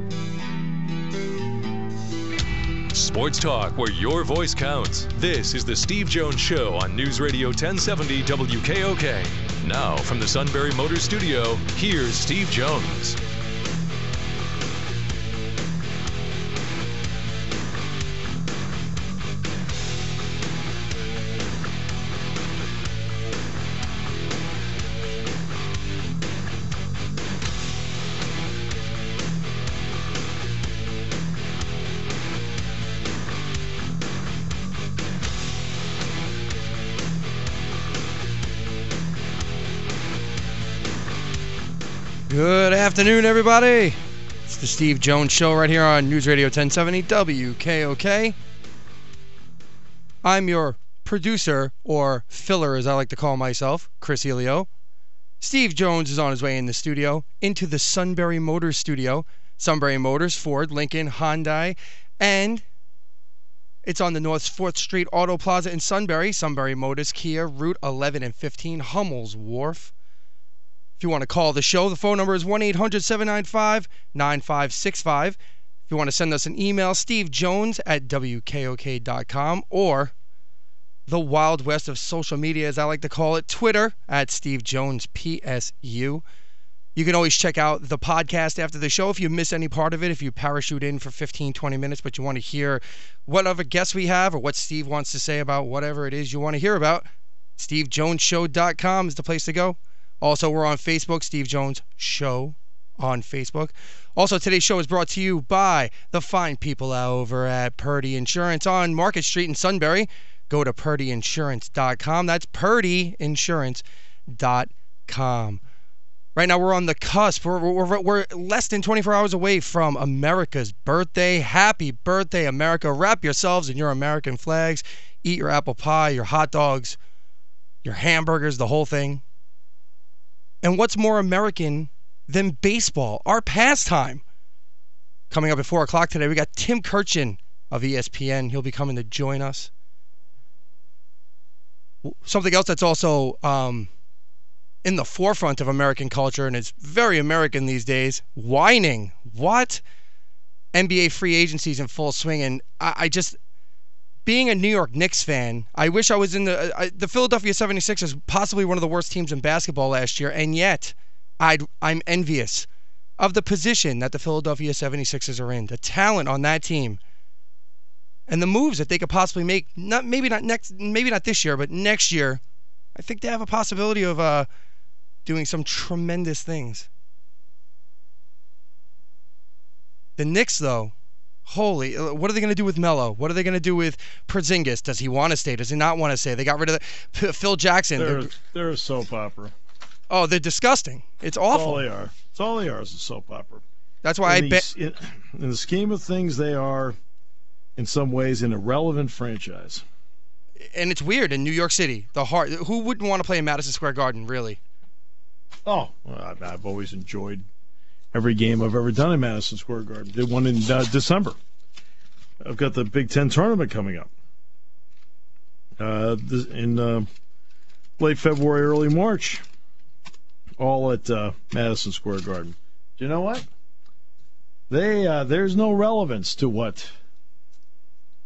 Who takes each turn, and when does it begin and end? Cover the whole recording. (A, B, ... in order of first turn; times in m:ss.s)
0:02.9-0:13.2 A
0:42.3-0:48.4 B
0:50.2-0:54.7 B
0:55.4-1:02.6 B
1:03.8-1:09.9 B
1:11.0-1:20.1 B
1:21.1-1:26.2 B
1:26.9-1:55.6 B
1:56.3-2:07.0 B
2:07.8-2:09.2 B
2:10.6-2:14.2 B
2:15.3-2:19.7 B
2:22.0-2:23.9 B
2:24.8-2:29.8 B
2:30.7-2:33.4 B
2:34.2-2:42.7 B
2:43.2-2:47.0 B
2:48.3-2:52.4 B
2:52.9-2:54.5 B
2:55.2-2:56.9 B
3:00.2-3:00.9 B
3:01.4-3:08.3 B
3:08.0-3:09.5 C
3:10.1-3:11.8 B
3:11.5-3:13.6 C
3:14.0-3:14.6 B
3:14.2-3:17.0 C
3:17.8-3:19.8 C
3:20.6-3:24.6 B
3:25.6-3:27.4 C
3:28.1-3:31.4 C
3:32.4-3:34.1 C
3:35.8-3:37.1 C
3:38.0-3:39.4 C
3:40.6-3:43.5 C
3:44.7-3:46.9 C